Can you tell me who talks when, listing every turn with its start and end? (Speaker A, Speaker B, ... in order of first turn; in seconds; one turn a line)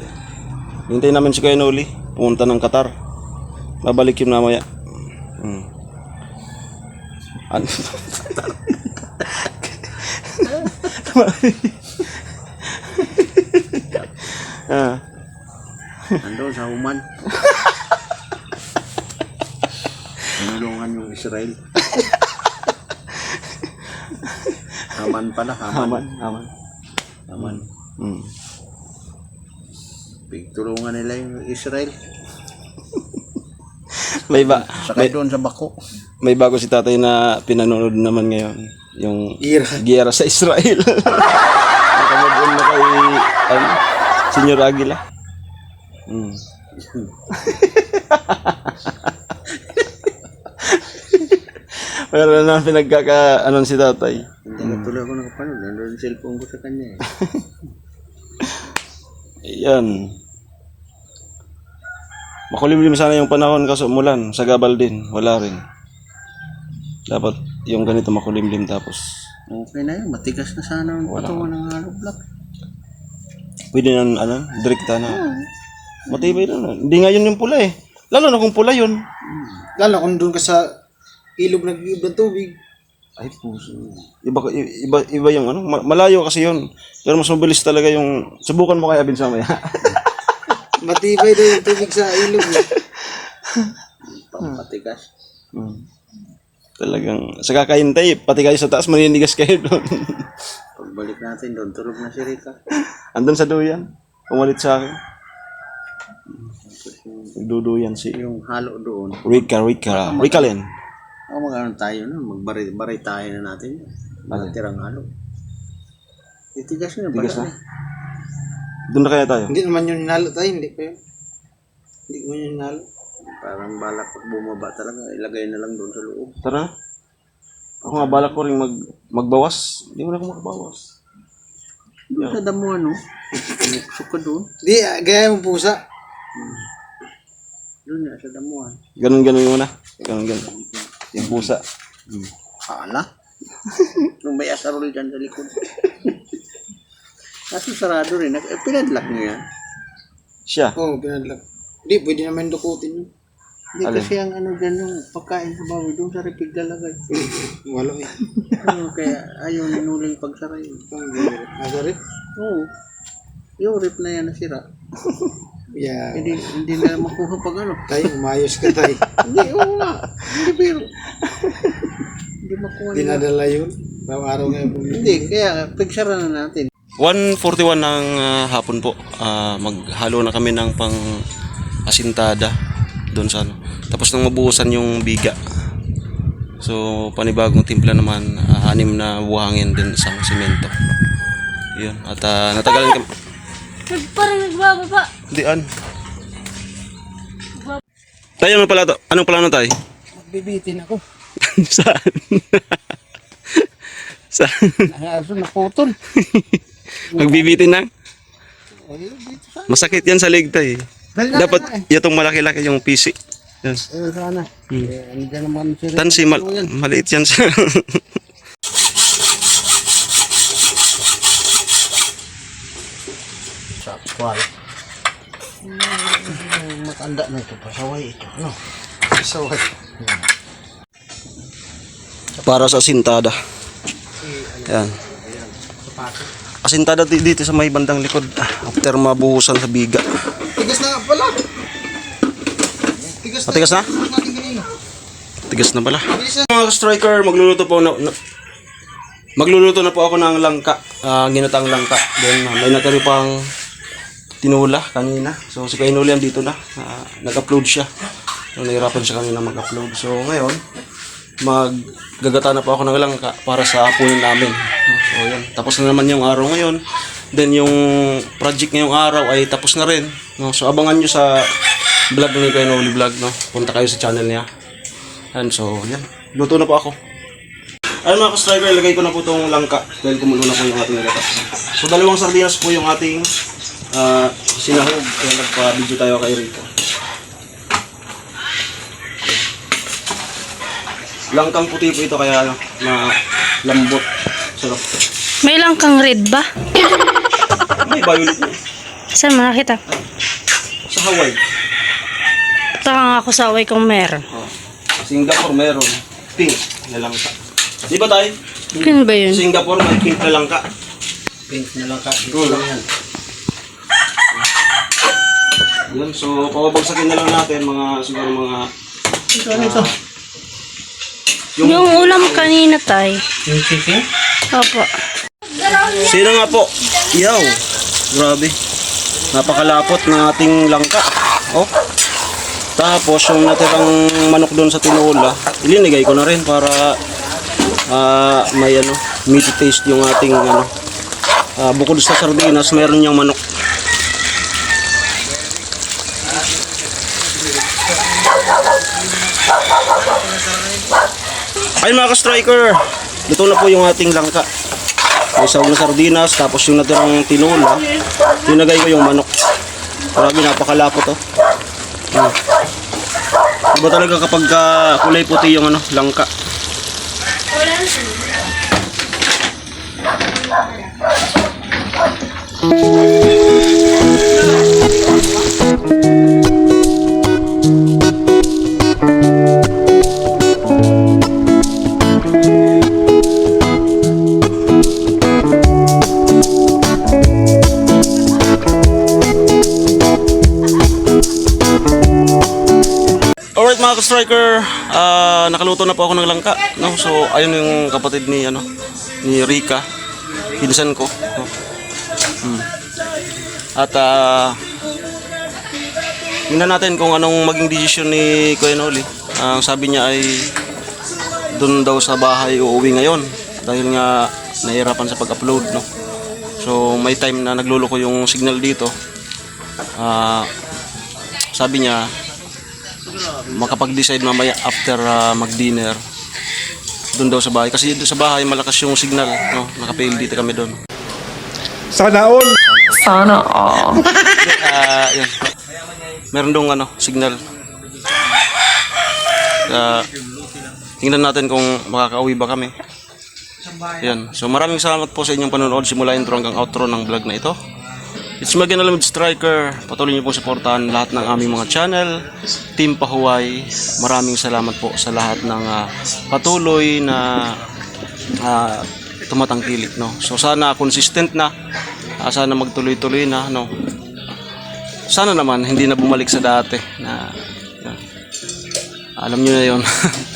Speaker A: 0.9-2.9
Speaker A: 3.8-4.6
Speaker A: 5.4-5.7
Speaker A: 7.5-15.0
Speaker B: 16.2-17.0
Speaker B: 20.4-21.6
Speaker A: 23.1-23.4
Speaker A: 24.1-24.6
Speaker B: 24.9-26.1
Speaker A: 25.7-26.5
Speaker B: 27.3-27.6
Speaker A: 27.4-28.3
Speaker B: 30.3-31.9
Speaker A: 34.0-35.1
Speaker B: 34.3-35.7
Speaker A: 36.2-41.4
Speaker C: 39.4-39.8
Speaker A: 41.9-43.8
Speaker A: 44.3-45.0
Speaker A: 46.1-46.4
Speaker B: 46.8-47.1
Speaker A: 47.3-49.1
Speaker A: 50.6-54.9
Speaker B: 54.5-57.0
Speaker A: 59.5-60.1
Speaker A: 62.5-65.6
Speaker A: 67.1-69.0
Speaker B: 69.5-72.2
Speaker A: 71.1-71.5
Speaker A: 73.7-75.2
Speaker B: 75.1-75.4
Speaker A: 76.1-79.0
Speaker B: 79.3-79.7
Speaker C: 79.8-80.6
Speaker C: 81.4-82.5
Speaker A: 83.2-90.0
Speaker C: 90.8-92.7
Speaker A: 92.3-93.7
Speaker B: 94.0-95.1
Speaker A: 95.5-95.8
Speaker A: 96.8-100.3
Speaker B: 100.8-102.6
Speaker A: 103.1-105.0
Speaker B: 106.6-107.3
Speaker A: 107.4-108.2
Speaker B: 108.1-110.5
Speaker A: 109.2-110.7
Speaker B: 111.3-115.1
Speaker B: 116.5-117.5
Speaker A: 117.1-117.5
Speaker A: 118.9-119.5
Speaker C: 119.5-120.9
Speaker B: 122.1-126.3
Speaker A: 126.4-126.7
Speaker A: 127.8-130.8
Speaker B: 127.9-128.3
Speaker B: 132.1-133.0
Speaker B: 133.5-134.5
Speaker C: 134.6-135.8
Speaker B: 136.3-136.6
Speaker B: 137.8-138.8
Speaker A: 139.0-140.5
Speaker B: 140.5-141.4
Speaker A: 141.1-141.6
Speaker B: 142.1-143.1
Speaker B: 144.2-146.1
Speaker B: 147.5-149.4
Speaker A: 150.5-150.8
Speaker C: 150.8-153.1
Speaker B: 153.8-157.2
Speaker A: 153.8-154.1
Speaker C: 157.1-158.1
Speaker B: 158.6-160.9
Speaker C: 160.9-162.0
Speaker B: 162.3-162.7
Speaker B: 163.6-164.6
Speaker C: 165.7-166.4
Speaker B: 166.1-168.0
Speaker C: 167.9-169.2
Speaker B: 169.2-170.9
Speaker B: 172.4-173.2
Speaker C: 172.9-175.3
Speaker B: 174.9-176.7
Speaker A: 177.0-181.0
Speaker A: 181.9-182.5
Speaker A: 183.1-185.4
Speaker A: 186.6-190.7
Speaker A: 191.7-193.1
Speaker D: 193.9-195.1
Speaker A: 195.3-195.7
Speaker A: 198.4-199.7
Speaker C: 200.2-201.0
Speaker A: 201.4-202.8
Speaker A: 204.3-204.9
Speaker C: 204.9-205.9
Speaker A: 206.1-207.9
Speaker C: 207.1-207.5
Speaker C: 208.9-209.8
Speaker A: 209.7-213.9
Speaker C: 211.1-211.8
Speaker C: 213.9-216.7
Speaker A: 215.9-218.0
Speaker B: 223.8-224.4
Speaker B: 225.7-228.5
Speaker B: 229.2-229.6
Speaker A: 232.4-233.4
Speaker A: 234.6-234.9
Speaker A: 236.6-240.0
Speaker C: 240.5-241.4
Speaker C: 243.2-244.7
Speaker A: 243.5-243.9
Speaker A: 245.5-248.1
Speaker C: 246.1-246.5
Speaker A: 249.4-253.3
Speaker A: 254.4-257.9
Speaker A: 258.6-260.6
Speaker A: 261.4-266.8
Speaker A: 267.3-271.3
Speaker A: 272.1-274.4
Speaker A: 275.3-276.9
Speaker A: 278.0-283.3
Speaker A: 283.9-286.7
Speaker A: 291.3-294.8
Speaker D: 295.4-296.5
Speaker A: 297.8-298.6
Speaker D: 299.1-299.8
Speaker A: 300.9-301.4
Speaker D: 302.8-304.2
Speaker A: 305.0-307.3
Speaker A: 307.9-308.3
Speaker D: 308.7-309.4
Speaker A: 309.3-310.6
Speaker B: 311.5-312.8
Speaker A: 312.3-312.6
Speaker A: 315.9-318.7
Speaker A: 319.5-319.9
Speaker A: 321.6-322.5
Speaker D: 321.6-323.2
Speaker B: 323.5-323.9
Speaker D: 324.5-324.9
Speaker D: 325.6-326.0
Speaker A: 325.9-327.5
Speaker A: 328.1-328.5
Speaker A: 329.3-331.7
Speaker A: 332.8-336.9
Speaker A: 337.9-340.7
Speaker A: 341.6-343.4
Speaker B: 346.3-346.6
Speaker B: 350.1-350.7
Speaker A: 351.8-354.5
Speaker A: 355.4-357.8
Speaker A: 358.4-359.3
Speaker A: 360.1-361.2
Speaker A: 363.7-366.3
Speaker D: 367.5-368.2
Speaker A: 393.6-398.6
Speaker A: 399.2-399.8
Speaker A: 400.5-401.5
Speaker A: 403.8-404.6
Speaker A: 406.5-410.5
Speaker A: 411.5-415.9
Speaker A: 416.6-418.9
Speaker A: 420.0-420.5
Speaker A: 421.5-422.0
Speaker A: 423.5-426.0
Speaker A: 427.1-430.8
Speaker E: 431.9-434.0
Speaker A: 434.4-435.4
Speaker A: 436.3-437.4
Speaker A: 439.6-440.1
Speaker A: 441.0-442.7
Speaker A: 444.0-447.6
Speaker A: 448.4-452.1
Speaker A: 452.8-457.6
Speaker A: 458.4-461.5
Speaker A: 462.2-463.7
Speaker A: 465.1-468.0
Speaker A: 469.2-469.9